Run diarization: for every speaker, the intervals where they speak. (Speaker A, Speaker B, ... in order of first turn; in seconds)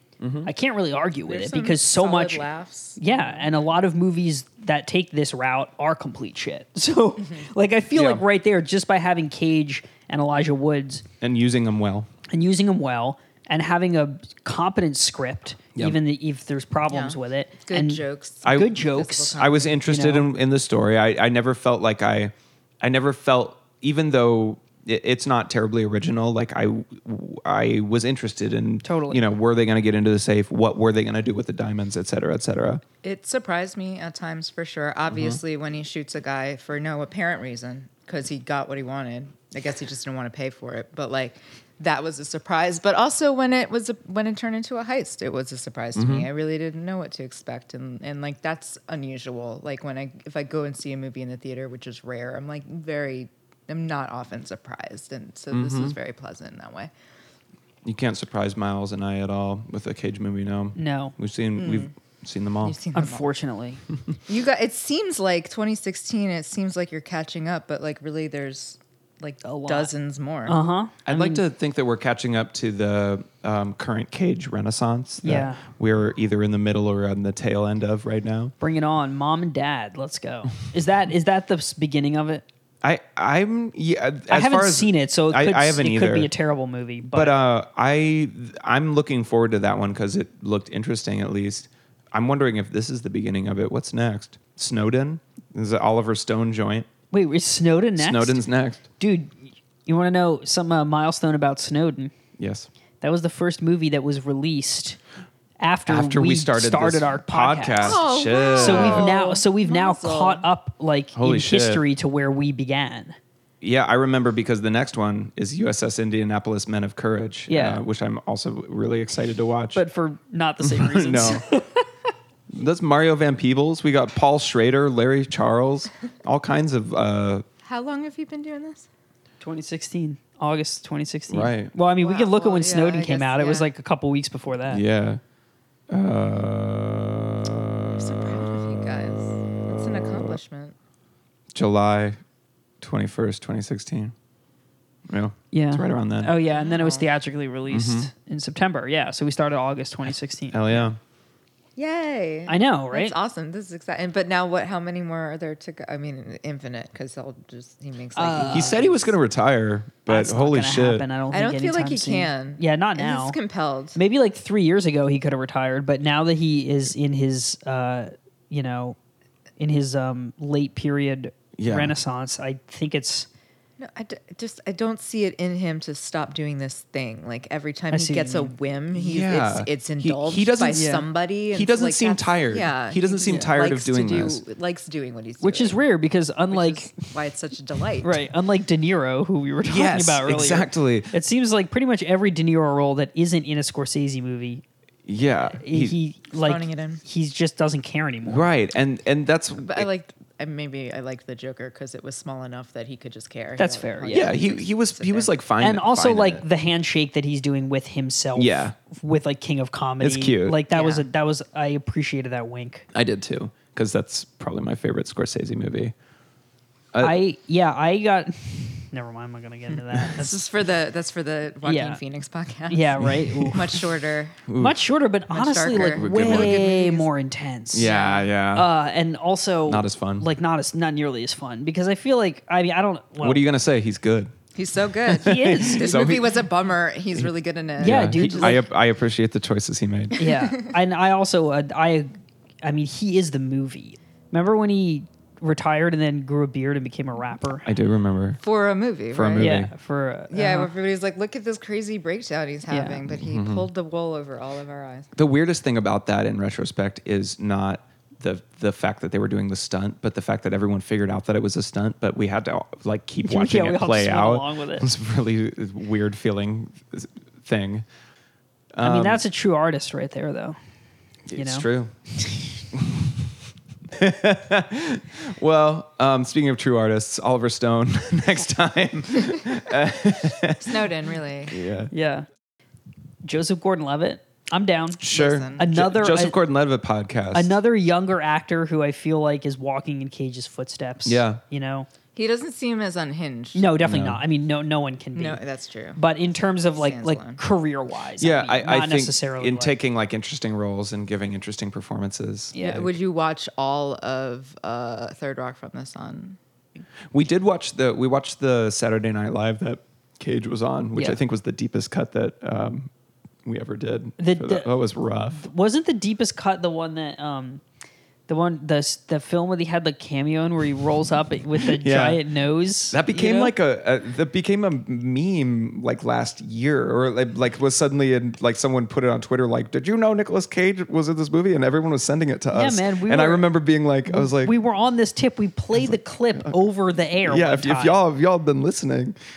Speaker A: 0.2-0.5, 7.9-8.2, 11.2-12.1, 18.4-18.7, 19.3-32.8, 35.1-35.4, 46.0-46.3, 55.5-56.0, 57.8-62.8, 71.1-78.5, 82.8-86.3, 87.1-96.9, 98.0-98.8, 102.4-102.7, 105.9-109.1, 111.2-111.8, 113.6-119.8, 120.6-121.5, 122.5-127.5, 131.3-131.7, 134.7-135.2, 135.9-140.4, 141.5-142.2, 142.8-144.2, 145.1-146.3, 147.7-148.1, 150.0-151.0, 158.5-161.1, 171.6-171.9, 178.9-180.8, 181.5-184.4, 189.7-191.1, 195.1-196.0, 198.2-199.9, 204.1-206.4, 208.4-208.7, 210.0-210.6, 212.9-215.9, 219.8-220.1, 223.0-223.8, 224.5-224.8, 225.7-226.6, 227.7-228.7, 229.7-230.3, 233.2-234.3, 235.1-236.4, 237.8-240.2, 247.6-248.4, 249.1-249.7, 253.2-253.7, 255.2-267.9, 268.7-269.2, 271.3-273.3, 273.9-280.9, 281.5-281.9, 285.0-287.6, 291.1-291.4, 293.8-294.2, 298.2-302.9, 307.1-312.9, 313.4-315.4, 321.6-322.2, 322.9-334.5, 335.8-336.5, 337.3-339.2
Speaker B: 0.4-2.5, 3.0-11.1, 12.3-20.3, 28.8-29.2, 60.8-61.2, 62.9-63.8, 69.4-69.9, 70.5-71.4, 75.2-75.6, 78.6-82.5, 84.3-87.3, 97.1-98.4, 99.0-102.1, 103.0-105.0, 105.6-108.0, 108.6-113.2, 117.5-117.8, 119.8-121.9, 129.4-134.8, 145.5-150.9, 152.5-153.1, 158.2-158.8, 160.1-163.4, 164.0-169.0, 169.6-173.3, 177.9-178.5, 180.7-181.1, 185.4-186.9, 188.0-194.6, 195.5-198.5, 203.6-204.3, 205.6-212.9, 217.0-220.4, 221.6-222.0, 222.7-223.8, 224.6-228.0, 228.5-233.4, 235.2-236.0, 237.8-238.6, 240.2-247.7, 249.4-250.7, 252.7-253.0, 263.2-264.9, 268.8-270.6, 271.4-271.7, 281.9-282.3, 283.2-285.0, 285.6-286.4, 287.3-291.9, 293.6-295.4, 295.9-299.8, 302.5-302.9, 314.2-314.7, 315.4-317.6, 318.3-323.5, 332.5-333.5, 334.1-338.0
Speaker C: 1.3-3.6, 16.9-19.8, 33.0-56.9, 61.6-61.9, 62.6-63.3, 64.3-70.6, 107.8-110.5, 127.7-128.9, 132.0-133.7, 138.0-140.8, 146.5-147.1, 151.8-159.1, 161.3-164.0, 173.8-185.8, 186.5-188.2, 196.3-197.0, 199.6-205.3, 210.7-211.1, 220.1-224.4, 225.3-227.1, 227.8-228.3, 234.6-238.6, 240.2-240.7, 248.4-249.5, 250.3-255.1, 280.6-281.6, 285.1-285.7, 292.1-293.7, 295.1-297.4, 302.6-306.4